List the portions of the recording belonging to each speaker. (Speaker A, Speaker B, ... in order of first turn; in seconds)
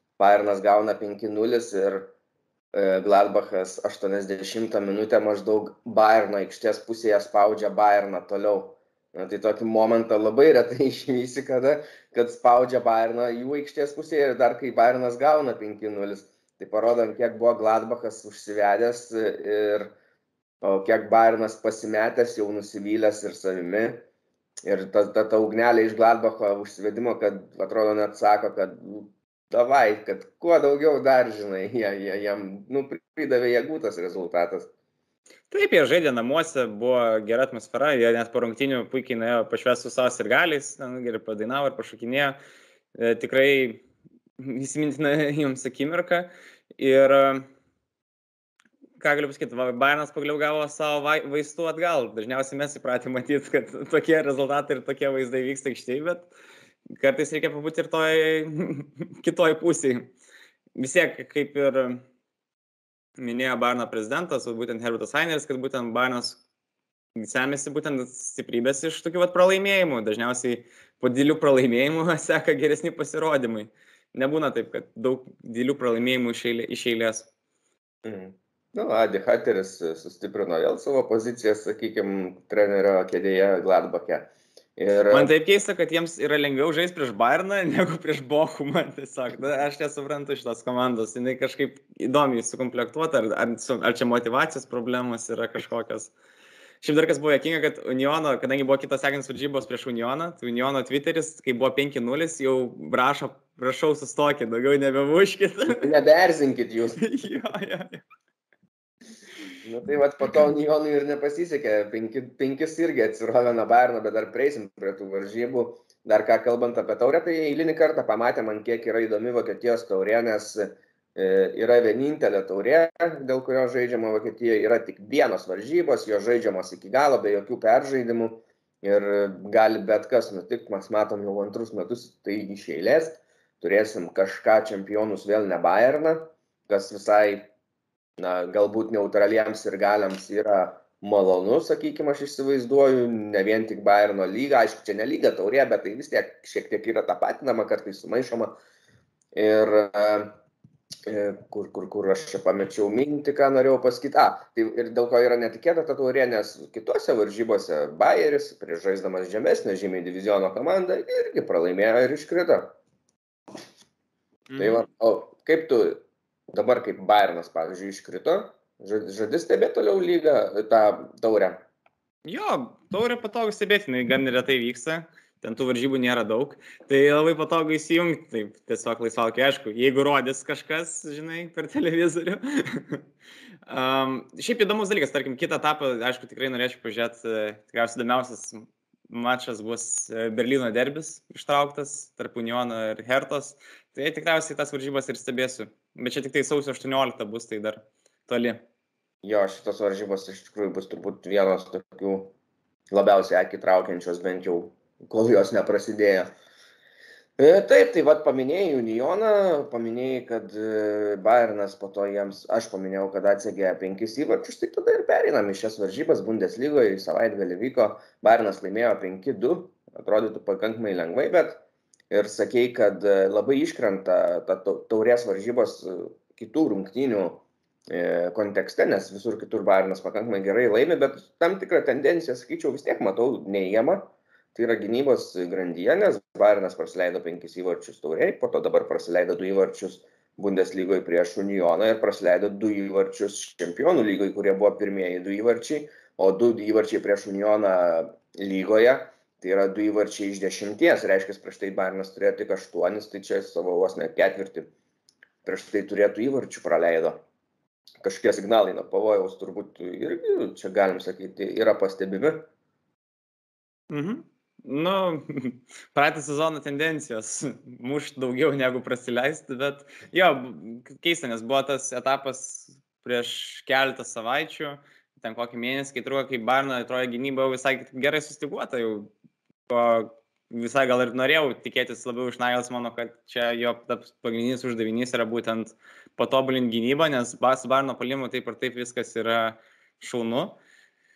Speaker A: 0.2-2.1, 2.7-19.9, 20.6-24.0, 24.6-34.7, 78.0-85.3, 105.8-107.0, 109.6-137.5, 138.2-148.5, 149.3-150.4, 151.1-162.8, 164.6-171.6, 199.2-202.3, 202.9-206.3, 207.4-254.7, 255.4-257.2, 258.0-262.5
Speaker B: 35.5-42.4, 43.0-43.8, 44.4-47.5, 49.0-56.3, 57.0-60.1, 60.8-62.0, 63.2-66.4, 67.2-77.3, 85.1-96.1, 96.8-105.9, 107.0-108.0, 164.5-164.8, 172.3-183.0, 183.7-198.6, 263.9-279.1, 279.7-290.6